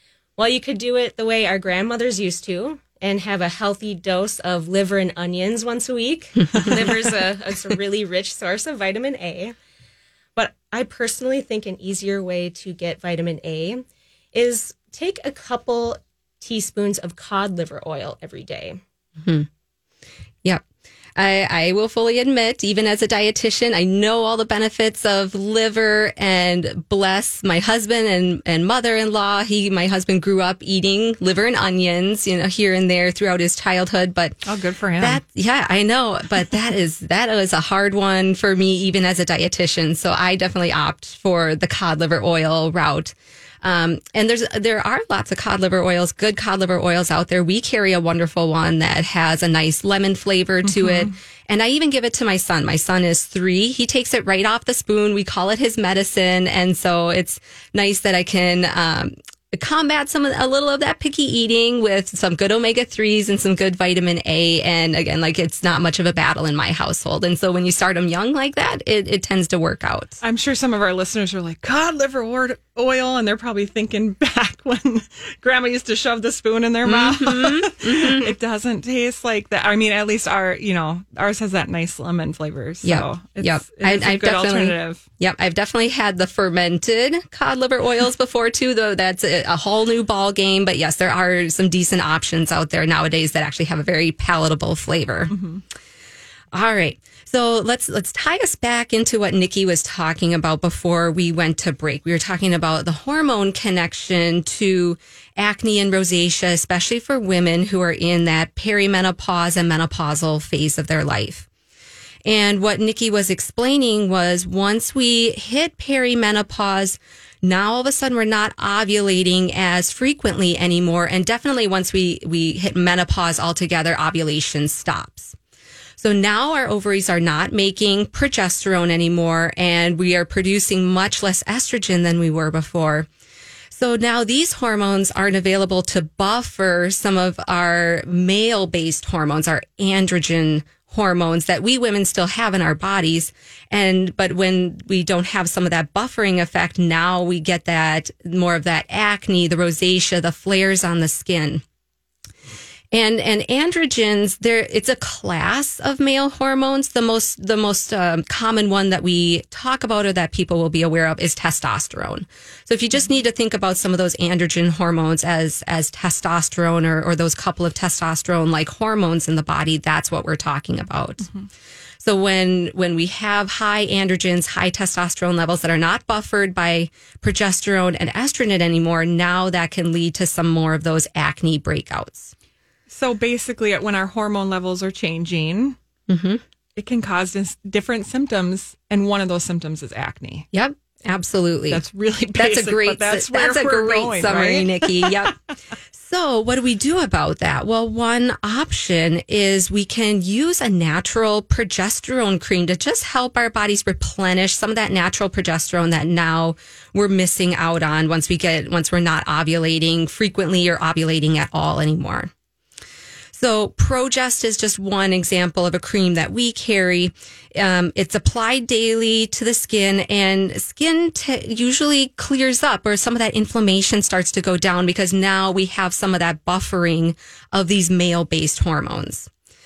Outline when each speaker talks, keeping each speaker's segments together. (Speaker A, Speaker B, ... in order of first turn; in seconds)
Speaker A: 0.4-9.5, 10.3-18.8
Speaker B: 6.5-6.9, 34.4-35.2, 50.6-51.1, 70.2-85.0, 95.3-95.6, 182.9-185.8, 186.8-190.5, 191.7-195.3
Speaker C: 19.2-19.5, 21.2-34.4, 35.0-70.2, 76.8-78.3, 82.8-95.4, 96.5-111.5, 112.2-125.3, 126.0-133.1, 133.7-151.6, 152.9-171.3, 172.0-182.3, 186.1-186.4, 190.5-191.8, 192.3-195.3, 195.9-212.3, 213.3-229.3